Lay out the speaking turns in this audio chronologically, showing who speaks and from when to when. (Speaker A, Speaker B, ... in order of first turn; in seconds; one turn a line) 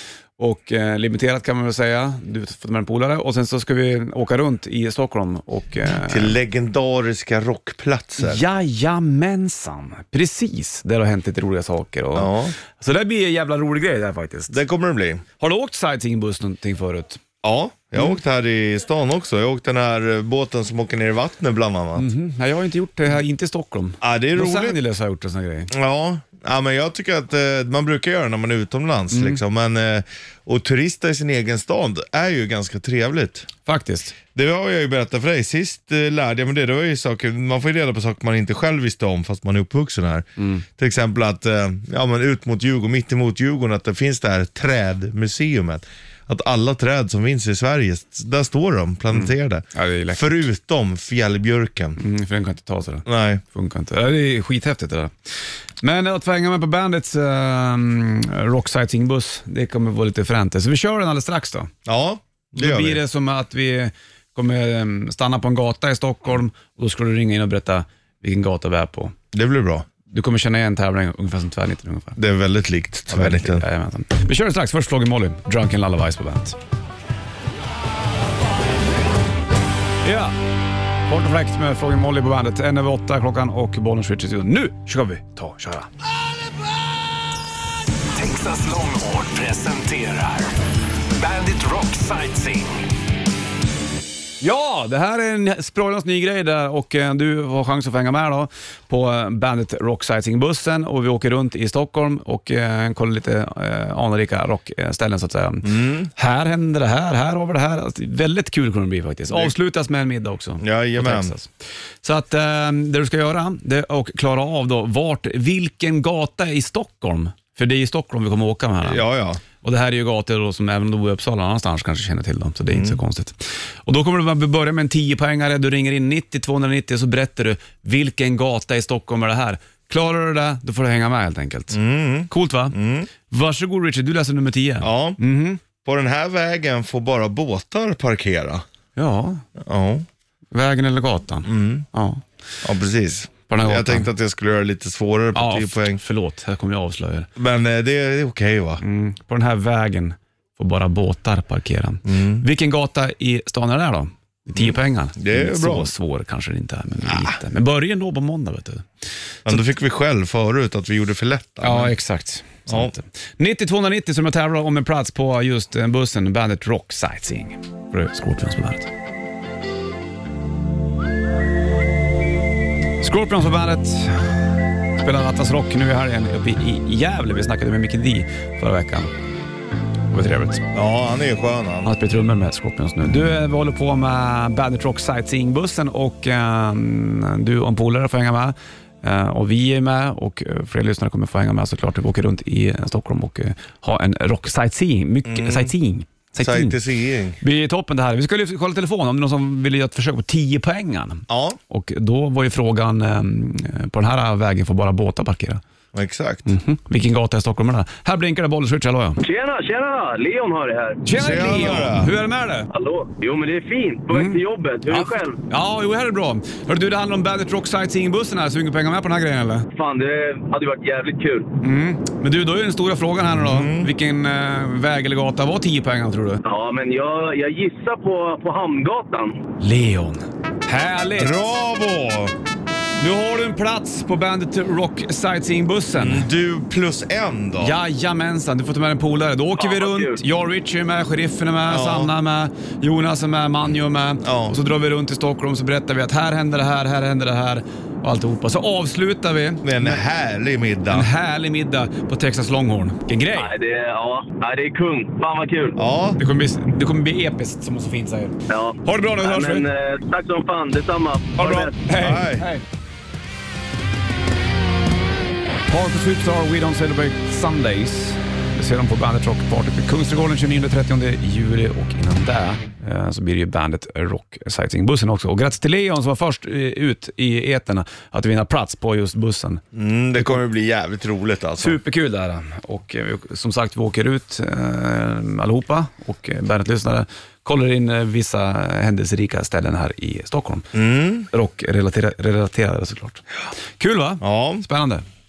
Speaker A: 0.4-6.4
Speaker B: 6.0-8.4
Speaker A: 8.2-14.6
Speaker B: 12.2-12.6
Speaker B: 14.5-15.2
Speaker A: 15.4-17.2
Speaker B: 17.4-22.1
Speaker A: 22.0-25.7
Speaker B: 24.0-24.8
Speaker B: 25.7-33.5
Speaker A: 29.1-29.4
Speaker A: 33.6-34.2
Speaker B: 34.3-52.0
Speaker A: 40.4-40.6
Speaker A: 49.1-50.4
Speaker A: 52.0-55.1
Speaker B: 53.1-53.4
Speaker A: 55.8-61.7
Speaker B: 61.9-63.0
Speaker A: 62.6-69.2
Speaker B: 69.3-69.9
Speaker A: 70.1-72.2
Speaker B: 72.2-73.7
Speaker A: 73.1-76.6
Speaker A: 80.0-80.3
Speaker A: 81.1-85.9
Speaker C: 88.2-90.5
Speaker C: 91.2-92.8
Speaker A: 94.4-111.5
Speaker B: 105.6-106.1
Speaker B: 109.3-109.5
Speaker B: 110.6-111.3
Speaker A: 112.0-119.0
Speaker B: 118.8-119.4
Speaker A: 119.6-132.8
Speaker B: 122.7-123.0
Speaker B: 131.7-133.1
Speaker A: 133.3-135.6
Speaker B: 134.8-135.2
Speaker B: 135.8-138.7
Speaker A: 139.0-139.4
Speaker B: 139.6-140.1
Speaker A: 140.5-142.2
Speaker B: 141.4-141.9
Speaker B: 142.6-146.0
Speaker A: 143.5-144.1
Speaker A: 145.3-147.3
Speaker B: 147.4-148.8
Speaker A: 148.8-158.9
Speaker B: 152.1-152.4
Speaker B: 154.6-155.9
Speaker B: 157.1-157.3
Speaker B: 159.5-161.9
Speaker A: 161.6-168.9
Speaker B: 162.7-162.9
Speaker A: 173.0-174.3
Speaker A: 175.0-179.1
Speaker A: 180.1-180.7
Speaker B: 180.7-181.9
Speaker A: 181.8-196.8
Speaker B: 195.3-195.7
Speaker B: 196.4-197.4
Speaker A: 197.4-205.6
Speaker B: 201.3-201.6
Speaker B: 205.9-206.5
Speaker A: 206.5-209.2
Speaker D: 209.2-211.0
Speaker A: 211.1-212.7
Speaker B: 211.1-212.1
Speaker D: 212.7-215.4
Speaker A: 214.1-219.7
Speaker D: 219.8-221.5
Speaker A: 221.6-226.4
Speaker B: 223.3-223.9
Speaker D: 226.4-229.4
Speaker A: 229.6-231.5
Speaker B: 231.2-232.3
Speaker A: 233.0-236.3
Speaker B: 235.9-237.8
Speaker A: 237.6-250.0
Speaker D: 239.6-240.2
Speaker B: 241.7-242.1
Speaker B: 244.2-244.6
Speaker B: 249.6-251.1
Speaker A: 250.9-253.5
Speaker D: 253.3-255.8
Speaker B: 255.8-256.2
Speaker A: 256.2-259.7
Speaker D: 258.5-261.8
Speaker A: 261.4-262.6
Speaker B: 261.9-262.4
Speaker A: 265.7-279.6
Speaker B: 279.7-281.8
Speaker A: 281.6-290.7
Speaker B: 290.7-291.3
Speaker A: 291.3-293.2
Speaker A: 293.8-295.1
Speaker B: 294.2-294.7